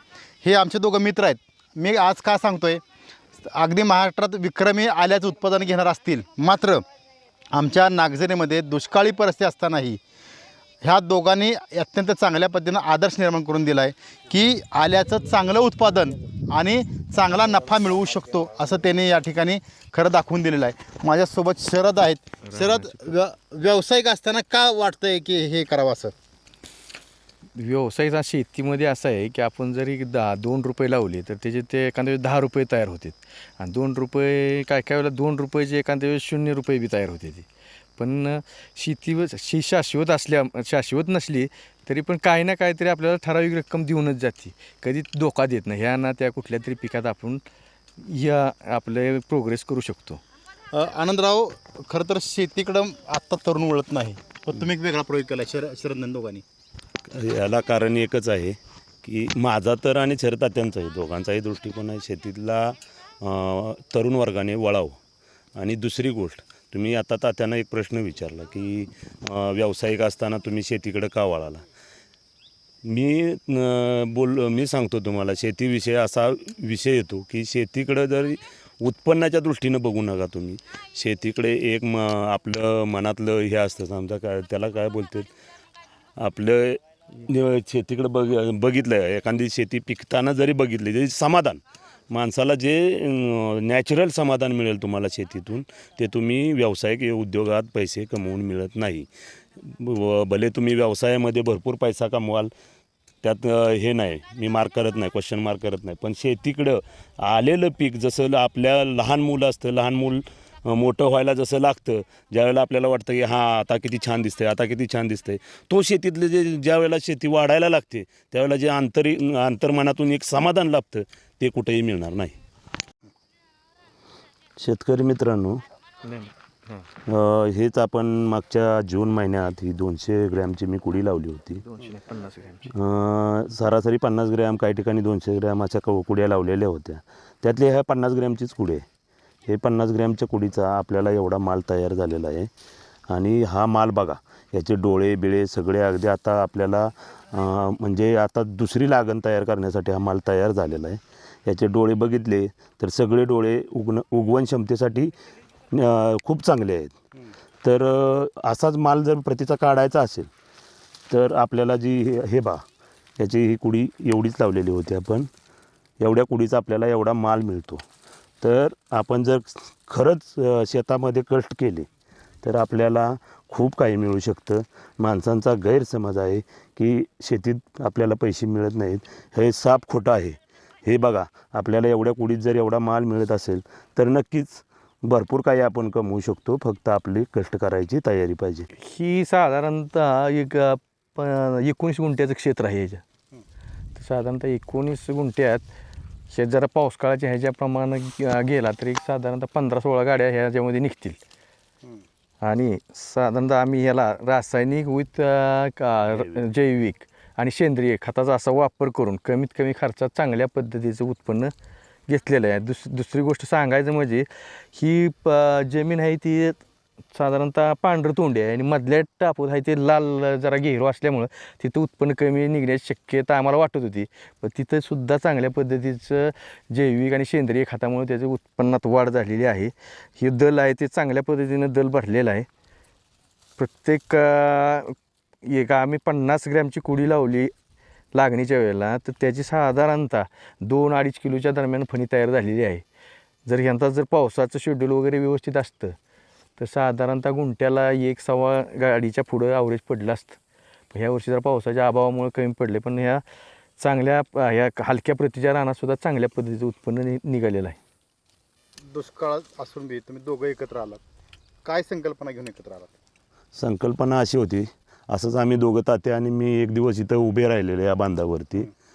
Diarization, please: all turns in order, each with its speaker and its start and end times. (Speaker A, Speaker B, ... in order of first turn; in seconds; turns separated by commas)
Speaker A: 0.4-2.8, Speaker A: 3.4-6.8, Speaker A: 7.5-10.0, Speaker A: 10.8-26.1, Speaker B: 22.5-23.1, Speaker B: 27.6-37.5, Speaker B: 38.0-47.4, Speaker B: 48.0-50.2, Speaker A: 50.7-56.4, Speaker C: 57.1-65.0, Speaker C: 65.6-71.6, Speaker C: 72.8-85.3, Speaker C: 86.2-102.5, Speaker C: 103.2-122.4, Speaker C: 124.6-125.6, Speaker B: 126.0-126.9, Speaker C: 127.1-131.6, Speaker B: 131.6-132.7, Speaker C: 132.7-138.8, Speaker C: 139.5-142.5, Speaker C: 143.1-155.1, Speaker C: 155.7-156.9, Speaker C: 157.6-160.3, Speaker C: 161.1-162.6, Speaker C: 163.2-165.3, Speaker C: 166.0-167.8, Speaker C: 168.4-171.9, Speaker C: 172.4-188.7, Speaker B: 188.8-193.0, Speaker B: 194.0-195.7, Speaker B: 196.3-201.2, Speaker B: 202.4-211.5, Speaker C: 206.0-206.4, Speaker B: 212.1-216.6, Speaker B: 217.1-232.5, Speaker B: 233.6-237.5, Speaker B: 238.1-242.8, Speaker B: 243.5-246.0, Speaker B: 246.6-250.4, Speaker B: 250.9-253.2, Speaker B: 253.8-257.8, Speaker A: 258.9-261.0, Speaker A: 261.6-262.9, Speaker C: 263.6-268.7